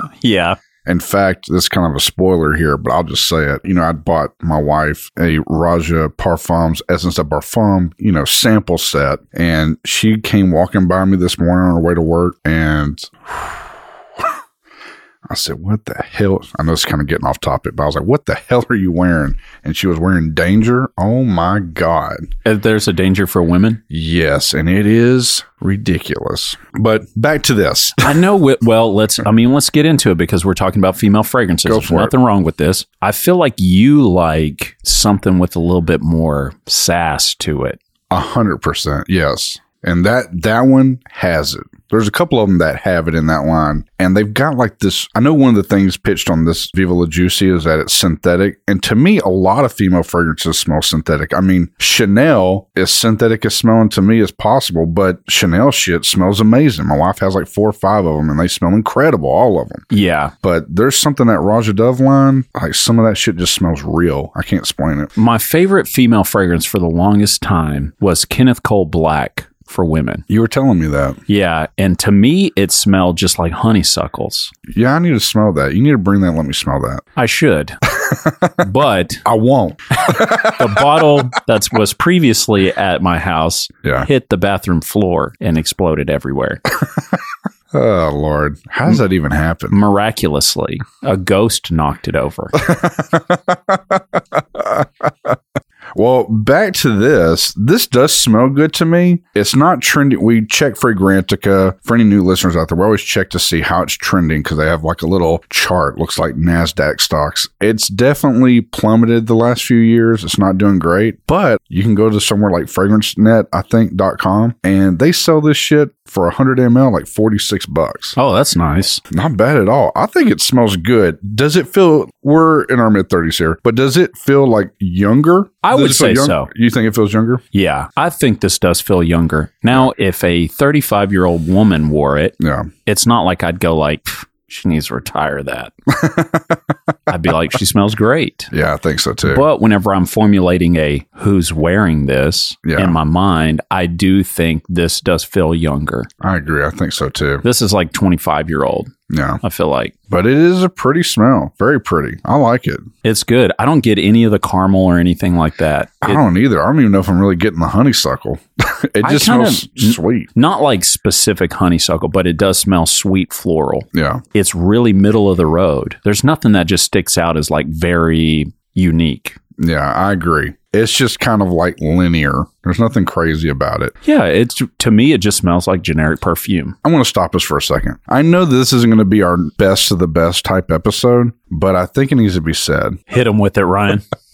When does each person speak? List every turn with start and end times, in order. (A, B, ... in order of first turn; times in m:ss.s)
0:00.2-0:00.6 A
0:00.8-0:13.6 B
0:15.3-0:22.3 B
0:22.4-0:23.8 A
0:23.9-0:28.1 B
0:28.0-0:37.8 A
0:31.6-0:32.1 B
0:38.1-0:59.8 B
0:59.9-1:00.3 A
1:00.4-1:05.1 B
1:05.2-1:10.2 A
1:10.3-1:11.2 B
1:11.3-1:14.5 A
1:14.7-1:17.0 B
1:17.2-1:17.8 A
1:17.9-1:18.5 B
1:18.6-1:19.2 A
1:19.2-1:21.1 B
1:20.0-1:26.6 A
1:27.7-1:29.8 B
1:29.7-1:32.6 A
1:32.6-1:34.0 B
1:34.5-1:35.3 B
1:36.0-1:58.2 B
1:58.2-1:59.0 A
1:59.1-2:07.4 B
2:05.6-2:06.5 A
2:07.5-2:15.7 A
2:12.4-2:12.7 B
2:15.9-2:16.6 B
2:17.1-2:18.5 A
2:18.5-2:19.4 B
2:19.2-2:26.1 A
2:22.6-2:23.0 B
2:26.2-2:27.4 B
2:27.4-2:28.9 A
2:29.1-2:29.4 B
2:29.4-2:29.9 A
2:30.1-2:32.8 B
2:33.0-2:36.2 A
2:36.0-2:40.3 B
2:39.0-2:49.4 A
2:43.9-2:44.2 B
2:49.6-2:53.9 B
2:54.0-2:56.8 A
2:56.8-3:03.0 B
3:03.1-3:04.0 A